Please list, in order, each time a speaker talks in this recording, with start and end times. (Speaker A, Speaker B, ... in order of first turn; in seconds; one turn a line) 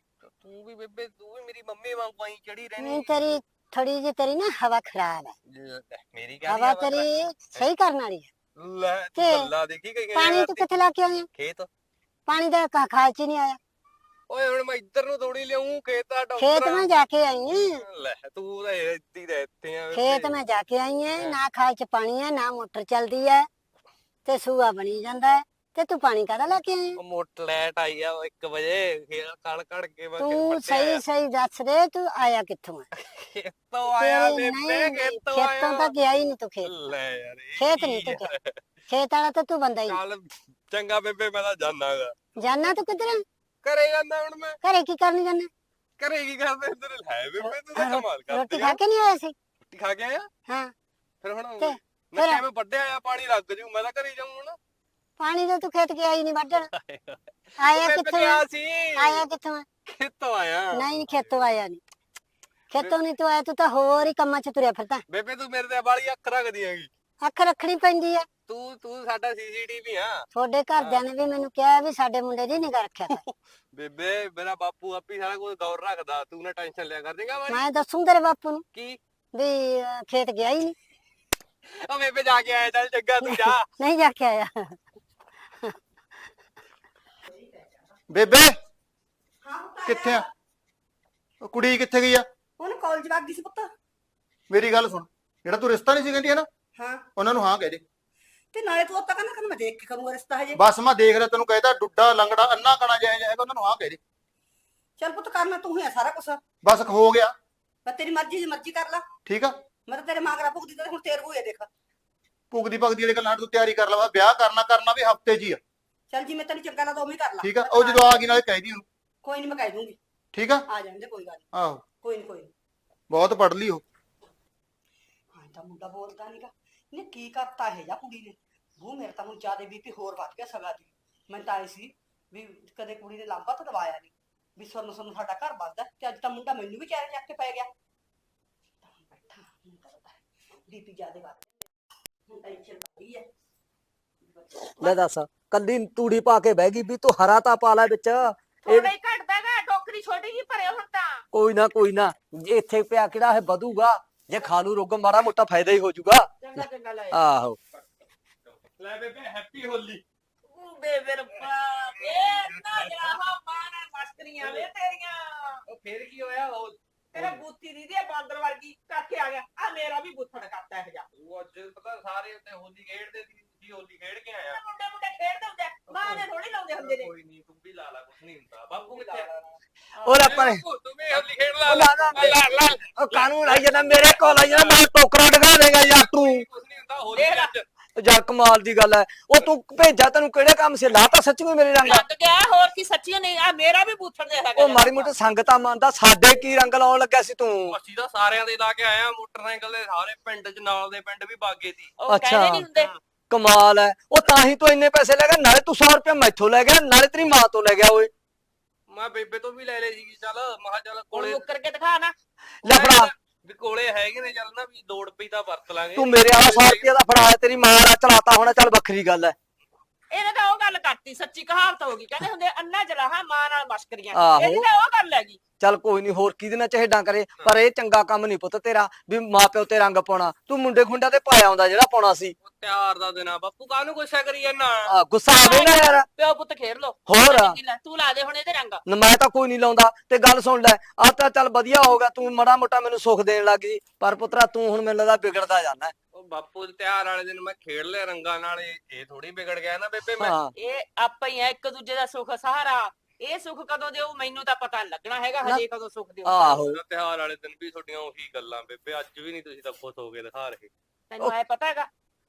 Speaker A: 0.4-3.3
Speaker B: 2.8-5.3
Speaker A: 5.5-7.7
Speaker B: 6.4-8.3
Speaker A: 8.6-11.7
Speaker B: 9.1-9.5
Speaker B: 10.1-11.3
Speaker B: 12.3-13.6
Speaker A: 14.3-17.0
Speaker B: 16.4-17.8
Speaker A: 17.7-20.4
Speaker B: 19.9-23.5
Speaker A: 21.1-21.4
Speaker B: 24.2-27.0
Speaker A: 26.9-31.0
Speaker B: 30.2-32.9
Speaker A: 33.0-36.0
Speaker B: 33.9-36.7
Speaker A: 36.6-38.5
Speaker B: 37.5-38.3
Speaker B: 38.9-40.0
Speaker A: 39.8-42.1
Speaker B: 42.4-43.2
Speaker A: 43.6-44.5
Speaker B: 44.6-45.5
Speaker A: 46.0-48.8
Speaker B: 47.7-49.3
Speaker A: 49.7-50.3
Speaker B: 50.5-50.7
Speaker A: 51.2-54.6
Speaker B: 51.6-52.4
Speaker B: 55.2-56.7
Speaker A: 56.7-59.2
Speaker B: 57.6-59.7
Speaker A: 59.9-61.4
Speaker B: 60.7-61.8
Speaker B: 62.7-65.0
Speaker A: 65.1-66.9
Speaker B: 67.2-68.3
Speaker A: 68.5-71.0
Speaker B: 70.3-73.2
Speaker A: 73.3-77.8
Speaker B: 77.5-78.6
Speaker A: 78.7-79.0
Speaker B: 79.3-80.7
Speaker A: 81.7-83.7
Speaker B: 83.2-84.8
Speaker C: 87.3-87.9
Speaker D: 88.1-88.5
Speaker C: 89.4-90.3
Speaker D: 89.8-90.2
Speaker D: 91.4-92.2
Speaker C: 92.6-93.7
Speaker D: 94.5-96.5
Speaker C: 96.8-97.0
Speaker D: 97.2-97.8
Speaker C: 98.5-100.6
Speaker D: 100.5-104.0
Speaker C: 105.0-106.4
Speaker D: 106.6-107.3
Speaker C: 107.8-109.0
Speaker D: 109.2-109.5
Speaker C: 109.9-111.7
Speaker D: 112.5-115.6
Speaker C: 116.1-118.4
Speaker D: 117.4-118.8
Speaker C: 119.2-120.0
Speaker D: 120.3-120.6
Speaker C: 120.7-121.4
Speaker D: 121.5-121.8
Speaker C: 122.0-122.5
Speaker D: 123.1-123.8
Speaker C: 125.3-137.7
Speaker C: 138.8-141.6
Speaker C: 142.3-143.2
Speaker C: 144.4-145.0
Speaker E: 144.7-148.9
Speaker F: 148.6-151.2
Speaker E: 151.3-156.3
Speaker F: 156.4-157.2
Speaker E: 157.1-157.6
Speaker A: 158.5-160.0
Speaker F: 160.5-165.6
Speaker A: 162.0-163.2
Speaker A: 164.4-164.7
Speaker A: 165.7-167.4
Speaker F: 167.1-171.0
Speaker A: 171.1-174.6
Speaker F: 174.4-177.1
Speaker A: 175.9-184.9
Speaker F: 178.8-179.3
Speaker E: 180.0-180.6
Speaker E: 181.6-186.4
Speaker F: 183.8-184.1
Speaker A: 186.0-187.7
Speaker F: 187.1-187.5
Speaker E: 187.9-192.1
Speaker F: 191.8-195.1
Speaker E: 194.6-197.8
Speaker A: 197.7-201.9
Speaker F: 202.0-203.0
Speaker E: 202.1-202.7
Speaker E: 203.3-208.1
Speaker A: 208.9-211.5
Speaker F: 211.1-212.1
Speaker E: 212.6-213.1
Speaker A: 212.6-216.9
Speaker E: 215.9-219.3
Speaker F: 220.1-225.4
Speaker E: 224.1-224.7
Speaker E: 225.6-232.3
Speaker A: 232.4-234.9
Speaker E: 234.8-236.1
Speaker F: 235.3-238.8
Speaker E: 237.1-237.6
Speaker E: 238.9-245.9
Speaker A: 246.1-250.3
Speaker E: 250.2-250.5
Speaker F: 250.5-256.5
Speaker E: 256.2-256.8
Speaker A: 256.5-260.7
Speaker F: 261.1-261.9